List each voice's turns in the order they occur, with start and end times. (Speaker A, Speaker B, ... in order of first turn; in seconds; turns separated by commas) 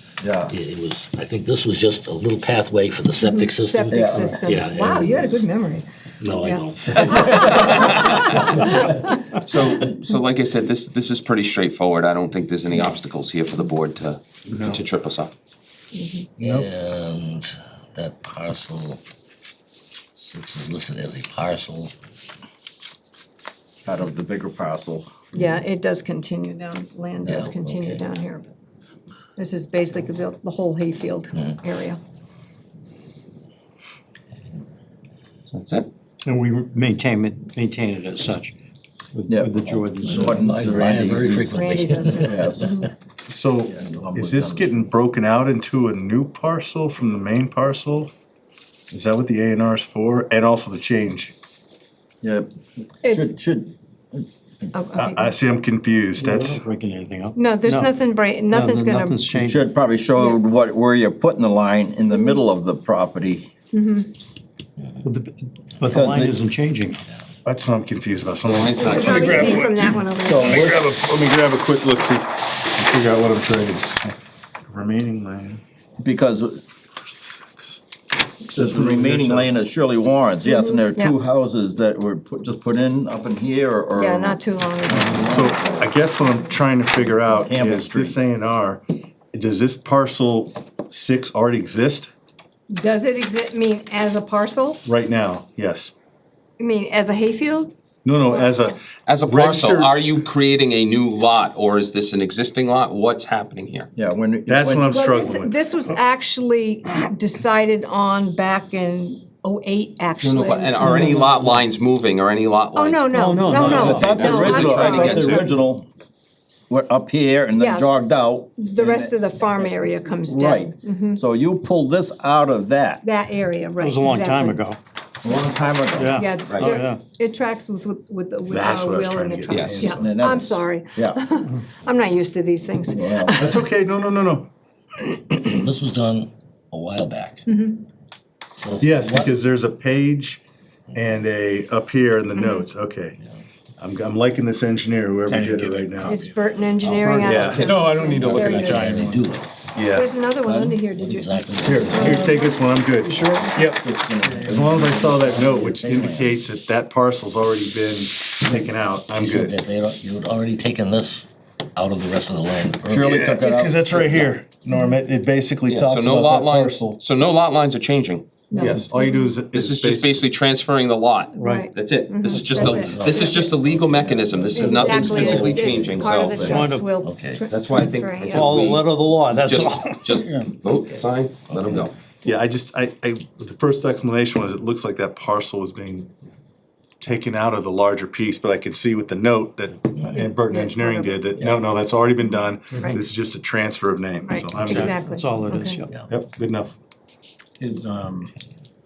Speaker A: 0.2-0.5, Speaker B: 0.5-5.5, Speaker C: 3.2-9.1, Speaker A: 3.9-4.4, Speaker B: 6.2-8.9, Speaker D: 7.1-8.8, Speaker D: 9.4-15.3, Speaker C: 15.9-16.3, Speaker B: 16.4-19.0, Speaker B: 20.2-21.9, Speaker A: 23.9-25.1, Speaker C: 25.3-28.5, Speaker B: 27.3-28.0, Speaker C: 29.4-32.0, Speaker D: 35.5-35.9, Speaker E: 36.2-38.5, Speaker E: 39.1-40.8, Speaker A: 39.3-41.6, Speaker B: 40.0-42.9, Speaker C: 41.3-42.9, Speaker A: 42.2-42.8, Speaker F: 43.3-48.1, Speaker A: 43.7-44.9, Speaker F: 48.9-51.3, Speaker A: 52.2-52.5, Speaker C: 53.0-53.3, Speaker A: 53.0-54.2, Speaker C: 54.7-55.3, Speaker F: 55.0-56.6, Speaker E: 56.2-58.0, Speaker C: 57.4-59.3, Speaker E: 58.5-59.7, Speaker A: 59.4-63.5, Speaker C: 60.1-60.4, Speaker C: 62.1-62.5, Speaker C: 63.7-64.1, Speaker E: 65.0-67.0, Speaker A: 65.9-66.4, Speaker F: 67.4-74.1, Speaker D: 68.4-69.6, Speaker C: 68.8-70.6, Speaker A: 70.2-70.8, Speaker F: 74.7-75.6, Speaker A: 76.0-76.6, Speaker A: 78.5-85.9, Speaker F: 78.5-79.5, Speaker C: 80.4-81.2, Speaker C: 84.0-86.6, Speaker F: 85.0-88.8, Speaker A: 87.2-88.2, Speaker F: 89.3-92.1, Speaker C: 92.7-94.9, Speaker F: 94.8-95.9, Speaker C: 96.6-97.7, Speaker F: 98.0-99.9, Speaker C: 98.2-98.8, Speaker D: 99.1-103.9, Speaker A: 104.0-105.1, Speaker F: 104.5-106.0, Speaker C: 104.9-110.9, Speaker D: 110.2-115.5, Speaker E: 110.8-111.3, Speaker C: 112.8-115.6, Speaker E: 113.1-114.3, Speaker A: 113.8-115.9, Speaker A: 116.7-123.0, Speaker C: 117.6-117.9, Speaker C: 118.6-121.2, Speaker C: 123.0-124.7, Speaker E: 123.8-124.8, Speaker A: 125.2-126.2, Speaker E: 126.0-127.0, Speaker C: 126.2-133.6, Speaker D: 126.5-126.8, Speaker F: 128.5-130.2, Speaker D: 129.5-129.9, Speaker A: 129.9-131.2, Speaker A: 132.9-133.4, Speaker F: 133.4-134.5, Speaker B: 135.4-137.5, Speaker C: 137.5-137.8, Speaker B: 138.6-139.3, Speaker F: 138.8-140.4, Speaker F: 140.9-143.2, Speaker C: 142.3-142.7, Speaker F: 143.8-146.2, Speaker G: 145.3-146.2, Speaker C: 146.0-148.9, Speaker D: 146.9-148.0, Speaker F: 147.2-147.8, Speaker G: 147.6-149.2, Speaker B: 148.0-149.5, Speaker F: 149.7-150.1, Speaker C: 149.9-153.5, Speaker A: 150.4-151.0, Speaker B: 151.0-152.4, Speaker F: 151.6-159.6, Speaker A: 153.2-156.4, Speaker B: 159.1-163.3, Speaker A: 162.9-164.4, Speaker F: 163.0-167.0, Speaker C: 164.7-165.0, Speaker D: 165.7-168.3, Speaker C: 168.5-169.3, Speaker F: 168.6-170.2, Speaker D: 169.5-176.7, Speaker E: 171.4-171.7, Speaker C: 171.4-173.5, Speaker B: 172.6-174.2, Speaker A: 173.9-176.6, Speaker C: 174.5-178.6, Speaker F: 174.6-175.4, Speaker E: 174.6-176.9, Speaker B: 177.0-177.4, Speaker D: 177.5-181.9, Speaker E: 178.3-180.5, Speaker B: 181.5-181.9, Speaker F: 182.2-186.1, Speaker F: 187.0-195.0, Speaker C: 190.1-191.2, Speaker C: 192.2-193.0, Speaker C: 194.2-195.8, Speaker E: 194.5-196.1, Speaker F: 196.1-196.7, Speaker G: 197.6-198.3